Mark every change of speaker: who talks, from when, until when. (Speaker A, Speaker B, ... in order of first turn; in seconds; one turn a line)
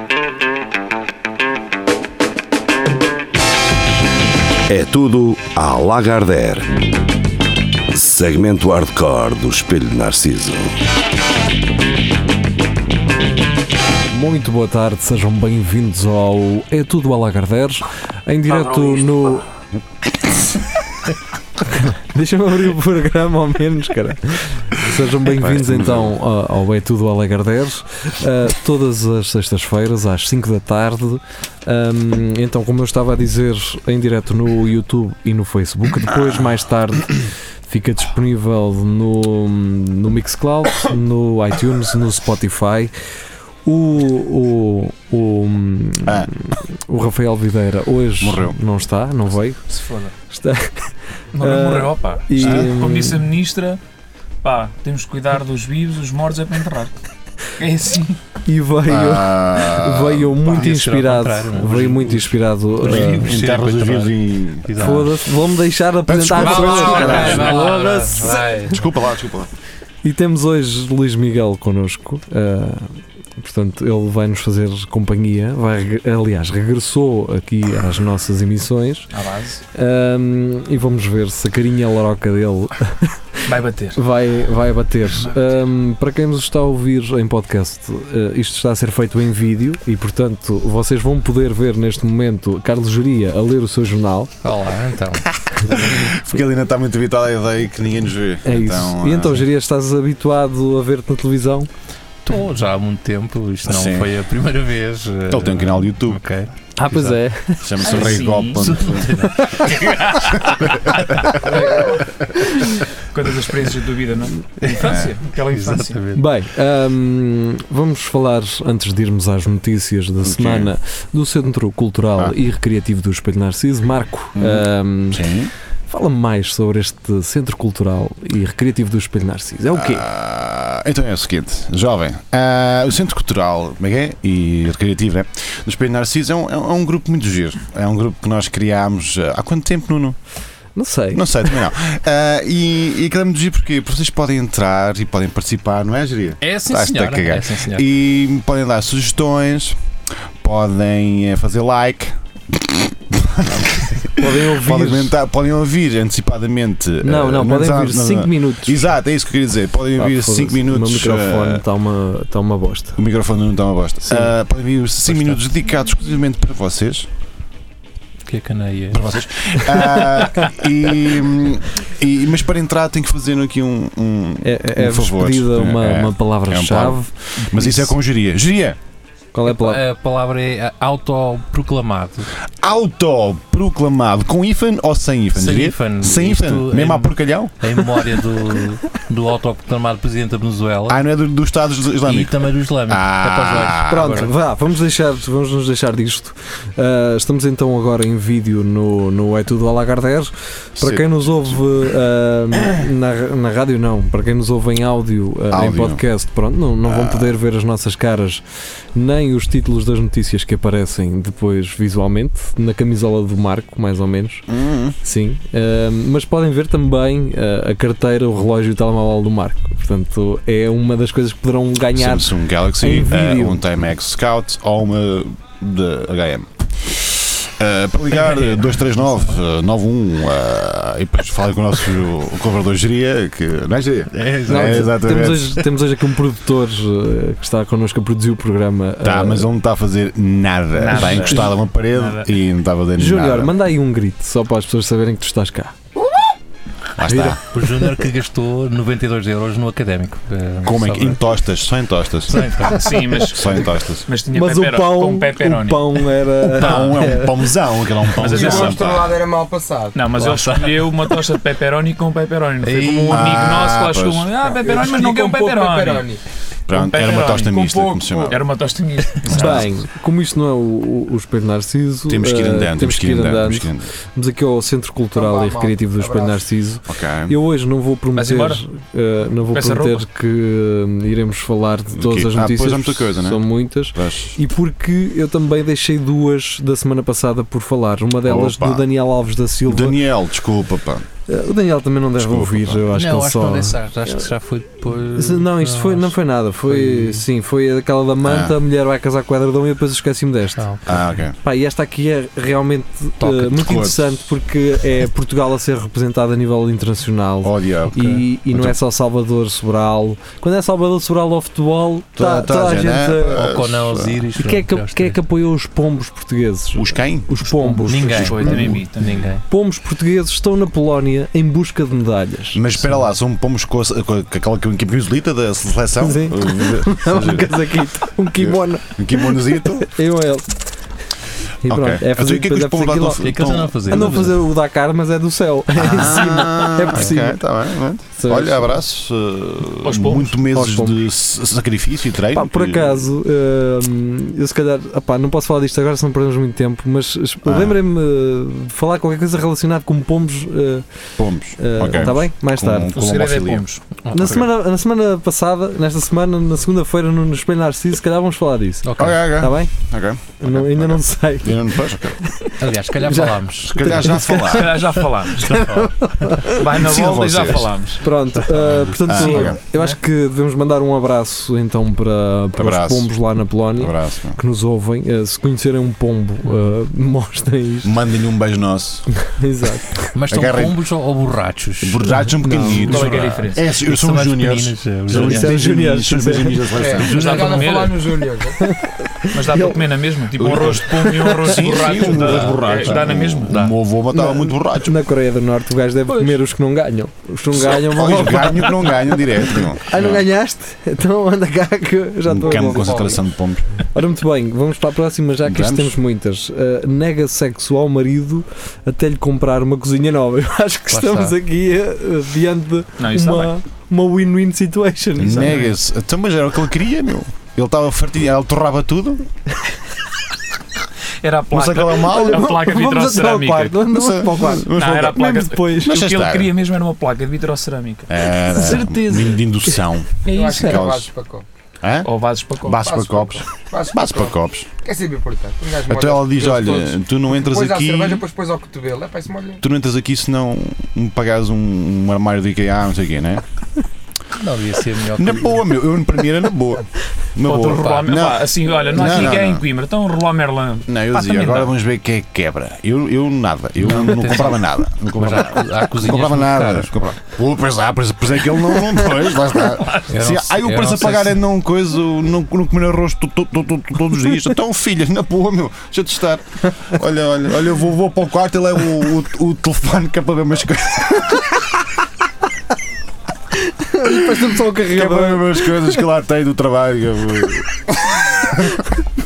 Speaker A: 4.7-6.8
Speaker A: 7.9-10.7
Speaker B: 14.1-19.4
Speaker B: 21.6-42.9
Speaker C: 25.2-26.1
Speaker C: 36.1-36.4
Speaker B: 43.6-49.6
Speaker C: 46.0-46.3
Speaker C: 48.2-48.6
Speaker D: 49.7-50.1
Speaker B: 50.3-53.2
Speaker D: 51.3-53.8
Speaker C: 52.4-52.7
Speaker D: 54.4-56.9
Speaker D: 57.6-58.2
Speaker B: 58.5-63.3
Speaker C: 58.9-60.3
Speaker E: 60.4-65.2
Speaker C: 62.8-65.0
Speaker B: 64.8-68.7
Speaker C: 66.1-67.7
Speaker E: 66.3-68.8
Speaker C: 68.6-69.5
Speaker B: 70.0-79.1
Speaker D: 79.1-79.6
Speaker B: 79.7-83.4
Speaker D: 83.5-84.0
Speaker B: 83.9-94.3
Speaker E: 94.4-95.2
Speaker C: 95.7-99.4
Speaker B: 98.4-101.7
Speaker E: 102.2-107.2
Speaker C: 103.6-104.1
Speaker C: 105.3-106.2
Speaker B: 106.8-107.8
Speaker C: 107.6-109.5
Speaker D: 107.8-112.0
Speaker E: 108.6-109.7
Speaker C: 110.6-111.6
Speaker D: 112.6-116.0
Speaker E: 114.6-116.2
Speaker C: 114.8-115.1
Speaker B: 116.1-125.2
Speaker C: 120.2-120.7
Speaker C: 124.3-125.5
Speaker B: 125.9-130.1
Speaker C: 129.7-140.2
Speaker B: 140.8-141.6
Speaker C: 141.1-149.8
Speaker E: 146.4-147.8
Speaker C: 150.4-161.6
Speaker B: 154.1-155.1
Speaker B: 157.0-158.8
Speaker B: 159.9-163.0
Speaker C: 163.0-167.1
Speaker E: 165.1-165.4
Speaker E: 168.2-169.8
Speaker C: 168.9-178.8
Speaker B: 174.4-177.9
Speaker B: 179.3-179.8
Speaker E: 179.5-182.3
Speaker C: 182.5-187.7
Speaker E: 185.3-191.0
Speaker C: 190.9-194.3
Speaker E: 192.0-194.3
Speaker B: 193.8-208.4
Speaker C: 200.8-201.6
Speaker C: 205.5-206.0
Speaker C: 206.8-207.3
Speaker B: 208.9-214.4
Speaker C: 214.5-215.0
Speaker B: 215.0-223.6
Speaker C: 221.9-235.6
Speaker E: 234.1-235.0
Speaker B: 234.5-239.5
Speaker C: 239.0-243.5
Speaker D: 240.8-241.5
Speaker E: 240.8-241.4
Speaker B: 243.0-245.8
Speaker C: 247.0-247.4
Speaker B: 247.1-248.0
Speaker E: 247.5-251.2
Speaker C: 250.6-254.1
Speaker E: 252.3-253.0
Speaker D: 252.7-256.1
Speaker B: 254.3-257.4
Speaker C: 256.4-259.1
Speaker D: 258.1-259.1
Speaker F: 258.2-260.0
Speaker D: 259.9-266.1
Speaker E: 260.1-261.2
Speaker E: 262.6-263.6
Speaker C: 263.1-264.3
Speaker F: 264.6-266.2
Speaker C: 266.7-268.4
Speaker D: 266.7-267.7
Speaker F: 267.5-268.4
Speaker D: 268.3-269.6
Speaker C: 269.3-269.7
Speaker B: 269.3-290.0
Speaker C: 272.1-273.9
Speaker F: 275.1-276.4
Speaker C: 276.9-277.3
Speaker D: 278.1-278.6
Speaker D: 279.5-280.0
Speaker C: 281.9-284.4
Speaker C: 288.2-288.8
Speaker C: 289.7-291.1
Speaker B: 291.3-294.3
Speaker C: 292.2-292.8
Speaker E: 292.9-297.2
Speaker B: 295.0-300.7
Speaker C: 298.2-298.6
Speaker E: 300.6-301.1
Speaker C: 300.9-301.4
Speaker B: 301.4-313.4
Speaker E: 303.2-303.8
Speaker C: 303.5-304.0
Speaker C: 307.4-308.8
Speaker C: 312.2-314.2
Speaker E: 313.3-315.2
Speaker B: 314.4-318.8
Speaker C: 316.7-317.9
Speaker E: 317.9-319.4
Speaker D: 317.9-319.3
Speaker B: 319.4-322.7
Speaker C: 322.5-327.6
Speaker B: 326.0-330.5
Speaker C: 328.4-329.9
Speaker B: 331.6-337.4
Speaker C: 331.7-334.2
Speaker E: 333.2-334.4
Speaker C: 335.8-343.1
Speaker B: 338.1-338.8
Speaker D: 339.8-340.4
Speaker B: 340.5-341.0
Speaker B: 342.3-350.8
Speaker C: 347.4-347.8
Speaker C: 351.2-353.6
Speaker B: 351.6-352.9
Speaker D: 352.9-353.8
Speaker E: 354.1-354.4
Speaker B: 354.1-359.7
Speaker E: 358.8-359.2
Speaker C: 359.0-362.2
Speaker B: 360.4-366.6
Speaker E: 362.6-364.1
Speaker C: 363.6-364.8
Speaker D: 364.5-365.6
Speaker E: 365.4-365.9
Speaker D: 366.5-368.0
Speaker C: 366.7-367.7
Speaker B: 368.0-377.9
Speaker E: 368.4-369.2
Speaker C: 369.1-369.6
Speaker D: 369.2-369.9
Speaker C: 372.6-373.1
Speaker C: 373.8-374.4
Speaker C: 377.8-379.1
Speaker B: 379.1-380.1
Speaker E: 380.1-382.3
Speaker C: 380.3-380.8
Speaker C: 381.8-387.7
Speaker B: 382.4-383.1
Speaker D: 382.7-383.6
Speaker E: 383.7-385.6
Speaker B: 385.1-386.7
Speaker F: 386.7-388.6
Speaker D: 386.9-388.1
Speaker B: 388.6-389.8
Speaker D: 389.3-393.6
Speaker C: 390.4-394.9
Speaker B: 391.0-391.5
Speaker E: 392.2-393.0
Speaker E: 393.5-393.8
Speaker B: 394.1-399.1
Speaker D: 396.1-396.4
Speaker C: 397.6-400.2
Speaker B: 399.8-403.2
Speaker C: 402.2-403.6
Speaker E: 402.6-403.2
Speaker B: 403.9-415.6
Speaker C: 405.4-405.9
Speaker E: 410.9-411.4
Speaker D: 413.0-413.5
Speaker C: 415.2-419.2
Speaker D: 415.4-415.7
Speaker D: 421.2-423.8
Speaker C: 421.5-422.5
Speaker B: 421.9-426.0
Speaker C: 423.9-426.5
Speaker D: 424.7-429.5
Speaker C: 428.1-431.1
Speaker D: 430.2-430.9
Speaker F: 430.2-431.4
Speaker C: 431.8-434.7
Speaker D: 432.0-432.9
Speaker F: 432.7-439.6
Speaker C: 435.9-438.2
Speaker C: 439.6-443.4
Speaker E: 444.3-445.6
Speaker C: 445.1-449.6
Speaker D: 447.4-451.7
Speaker E: 447.7-448.0
Speaker C: 450.9-471.7
Speaker E: 453.8-454.6
Speaker E: 455.1-456.9
Speaker D: 459.6-460.1
Speaker E: 460.1-461.4
Speaker B: 473.7-475.9
Speaker C: 474.0-478.6